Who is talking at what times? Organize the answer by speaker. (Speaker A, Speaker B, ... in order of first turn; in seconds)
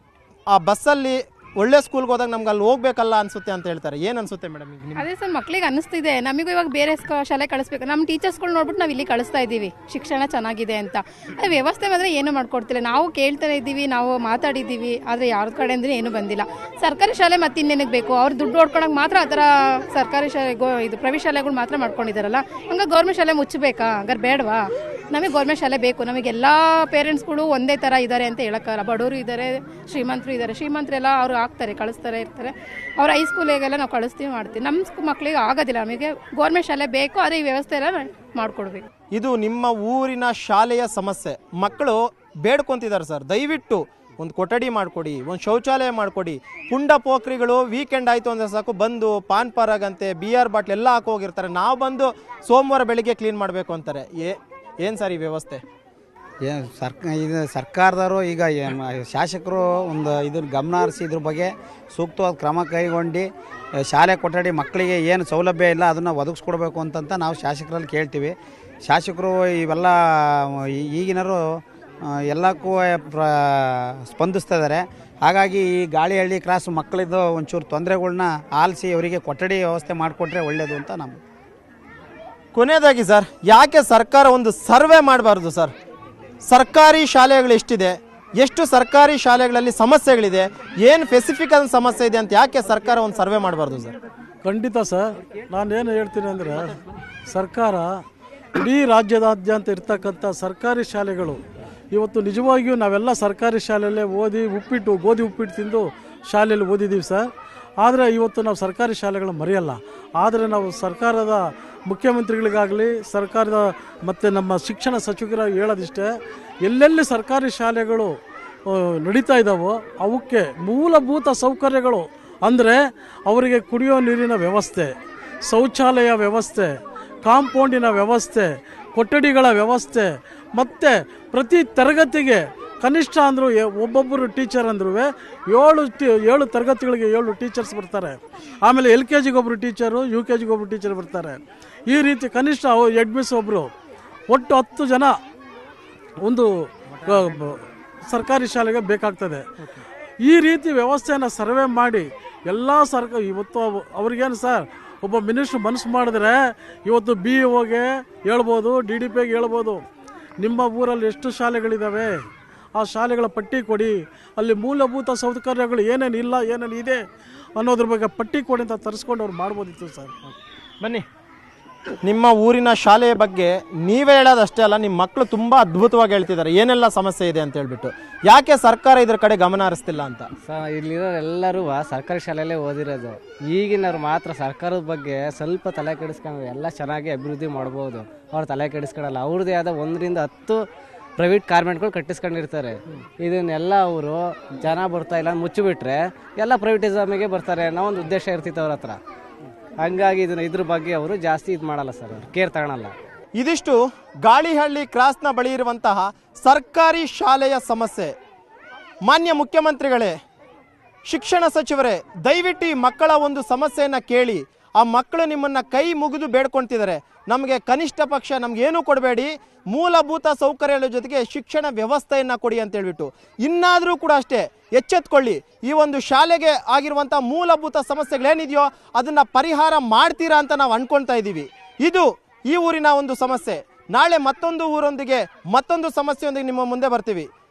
Speaker A: 0.5-5.1, 39.1-55.6, 82.5-85.7, 86.5-94.0, 146.9-147.4, 172.0-180.3, 203.4-208.2, 209.1-210.2, 211.1-237.3
Speaker B: 5.0-38.9
Speaker C: 56.5-63.3, 63.8-68.3, 68.9-81.2
Speaker D: 94.5-96.8, 97.3-98.0, 98.6-101.4, 101.9-107.3, 107.8-118.2, 118.7-125.0, 125.5-126.7, 127.2-141.4, 141.9-143.7, 144.3-145.2, 146.2-146.5, 147.1-149.4, 150.2-159.8, 160.4-162.2, 162.8-167.0, 167.6-170.1
Speaker E: 180.5-190.6, 191.2-199.0, 199.8-202.9